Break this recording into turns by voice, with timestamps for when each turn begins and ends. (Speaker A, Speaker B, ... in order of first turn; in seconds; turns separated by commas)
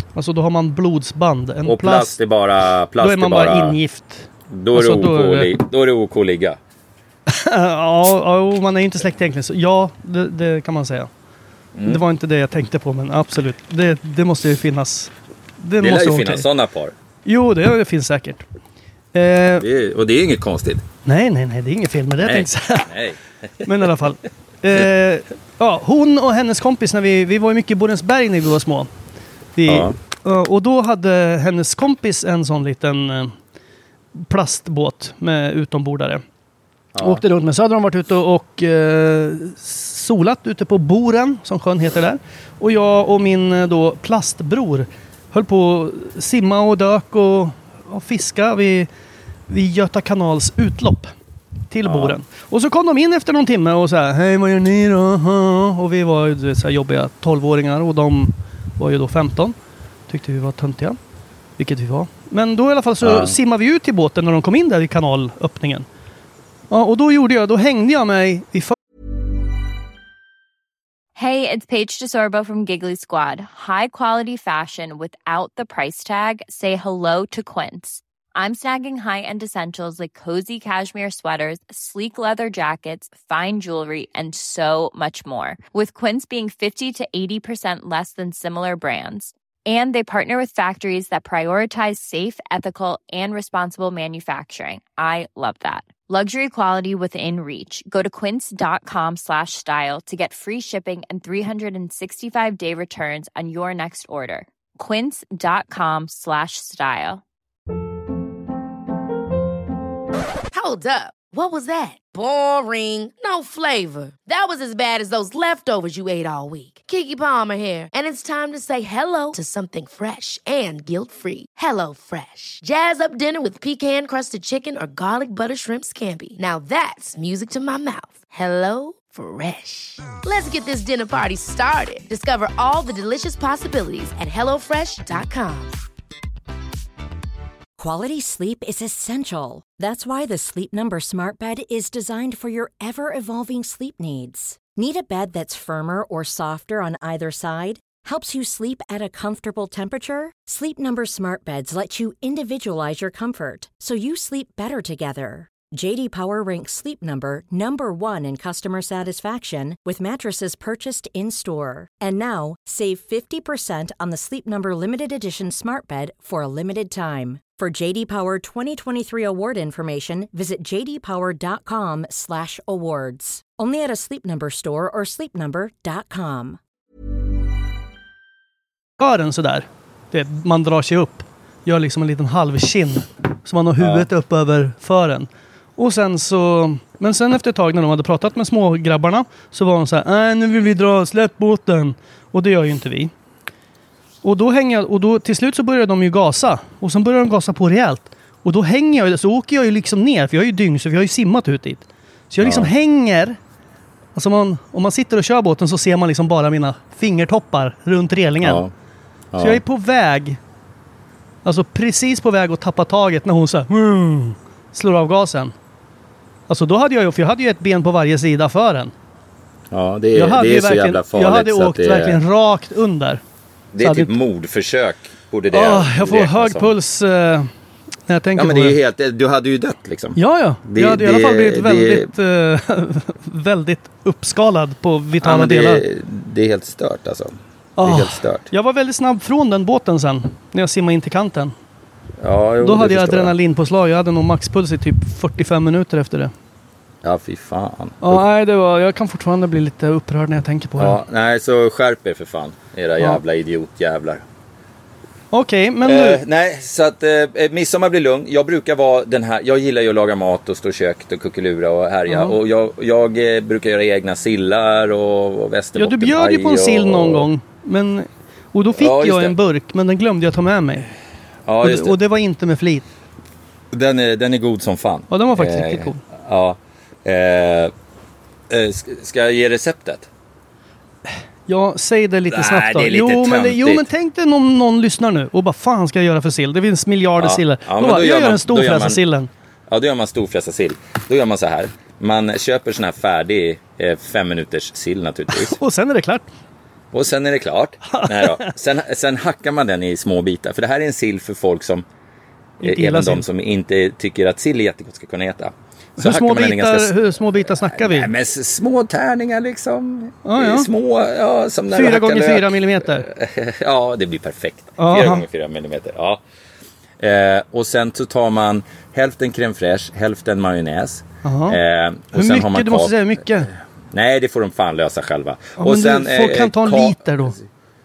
Speaker A: 0.1-2.1, Speaker B: 1.6-3.8, Speaker A: 3.0-5.5, Speaker B: 4.5-6.6, Speaker A: 7.3-11.1, Speaker B: 11.7-12.0, Speaker A: 11.8-16.4, Speaker B: 15.8-16.9, Speaker A: 17.2-18.4, Speaker A: 19.1-19.6, Speaker B: 19.6-20.8, Speaker A: 21.0-22.9, Speaker B: 22.2-23.9, Speaker A: 23.6-28.9, Speaker A: 29.6-33.4, Speaker B: 29.6-29.9, Speaker A: 34.1-36.2, Speaker B: 36.9-37.2, Speaker A: 37.0-48.9, Speaker A: 49.5-51.1, Speaker A: 51.7-59.5, Speaker B: 51.8-52.2, Speaker A: 60.1-61.0, Speaker A: 61.6-65.8, Speaker B: 63.0-63.3, Speaker A: 66.7-68.8, Speaker C: 71.2-107.2, Speaker D: 110.5-135.8, Speaker E: 137.8-176.6, Speaker A: 179.0-193.1, Speaker B: 183.8-184.1, Speaker A: 194.2-203.4, Speaker B: 202.4-202.7, Speaker A: 204.1-208.6, Speaker B: 208.4-208.7, Speaker B: 209.3-209.6, Speaker A: 209.4-210.4, Speaker A: 211.4-215.5, Speaker A: 216.5-218.9, Speaker B: 219.7-222.2, Speaker A: 220.1-223.2, Speaker B: 223.7-226.7, Speaker A: 223.8-224.1, Speaker A: 225.5-227.5, Speaker A: 228.1-228.8, Speaker B: 228.3-232.1, Speaker A: 230.2-235.8, Speaker B: 235.2-238.5, Speaker A: 237.8-241.5, Speaker B: 242.2-243.3, Speaker A: 242.6-246.3, Speaker B: 247.0-248.2, Speaker A: 248.0-251.0, Speaker B: 250.8-254.2, Speaker A: 255.3-256.2, Speaker B: 255.8-267.3, Speaker A: 262.1-262.3, Speaker A: 265.8-270.9, Speaker B: 268.8-269.4, Speaker B: 271.4-272.0, Speaker A: 271.6-272.9, Speaker B: 273.7-277.7, Speaker A: 275.1-276.0, Speaker B: 278.5-280.1, Speaker A: 281.1-289.3, Speaker B: 282.3-283.9, Speaker B: 287.2-289.0, Speaker B: 289.7-295.6, Speaker A: 295.3-296.3, Speaker B: 296.9-301.8, Speaker A: 297.9-298.5, Speaker A: 302.6-303.2, Speaker B: 302.6-316.2, Speaker A: 306.0-308.1, Speaker A: 310.2-310.7, Speaker A: 311.7-313.1, Speaker A: 314.8-315.2, Speaker B: 317.0-327.0, Speaker A: 321.2-321.6, Speaker A: 322.1-323.5, Speaker A: 325.6-327.4